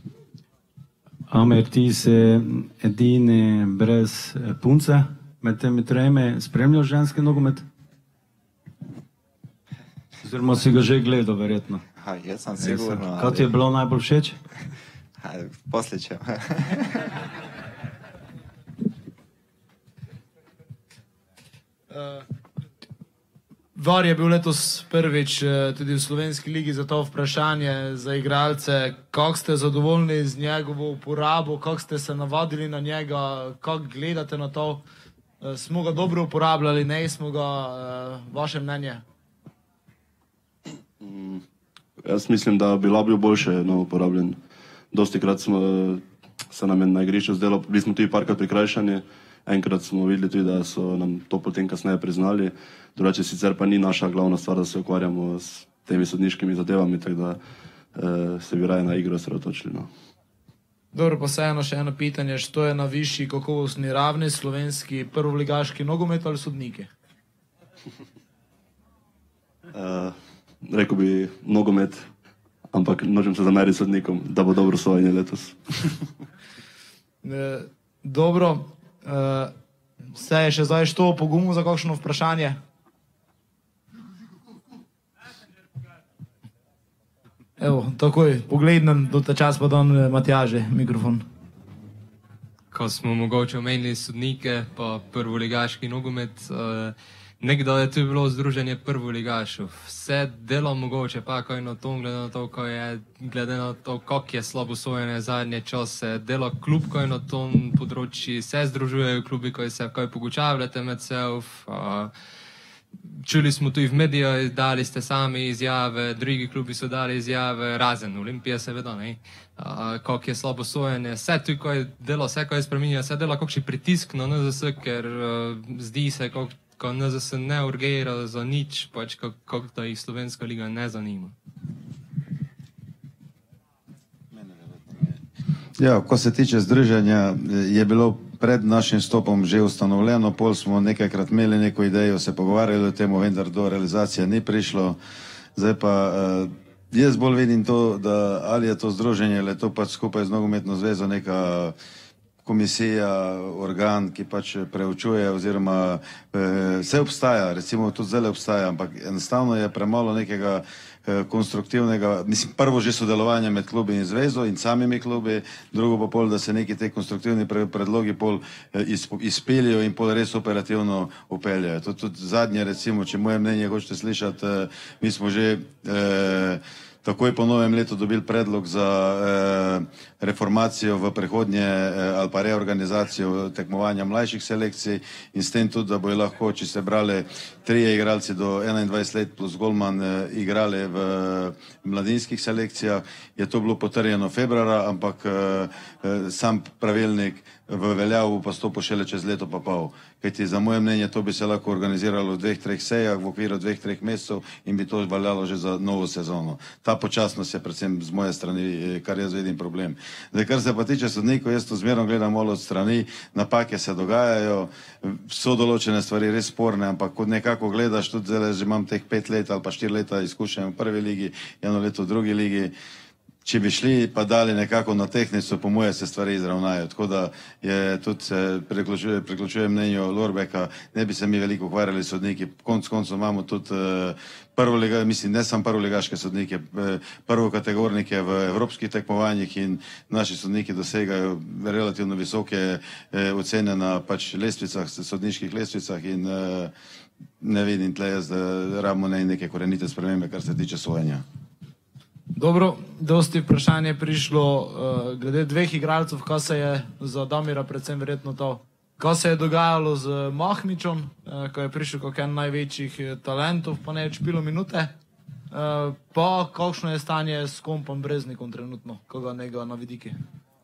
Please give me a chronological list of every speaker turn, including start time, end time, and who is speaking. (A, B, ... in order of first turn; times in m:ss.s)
0:01.3-0:07.6 A
0:10.2-0:11.8 A
0:12.0-0:13.5 B
0:12.6-0:14.4 A
0:15.2-0:17.0 B
0:21.9-0:22.2 C
0:23.8-0:34.8 C
0:35.4-0:39.0 C
0:41.0-0:41.4 D
0:42.0-0:44.4 D
0:44.9-0:57.4 D
0:57.9-0:59.9 D
1:00.9-1:06.9 C
1:09.7-1:12.1 D
1:12.7-1:16.0 D
1:17.2-1:19.5 C
1:20.1-1:22.6 C
1:27.6-1:31.2 C
1:32.7-1:52.1 E
1:53.2-2:11.4 E
2:14.4-2:15.2 F
2:15.8-2:25.0 F
2:25.6-2:31.7 F
2:32.4-3:42.7 F
3:43.4-4:06.7 F
4:07.4-4:11.2 F
4:12.4-4:24.9 C
4:25.5-4:30.2 C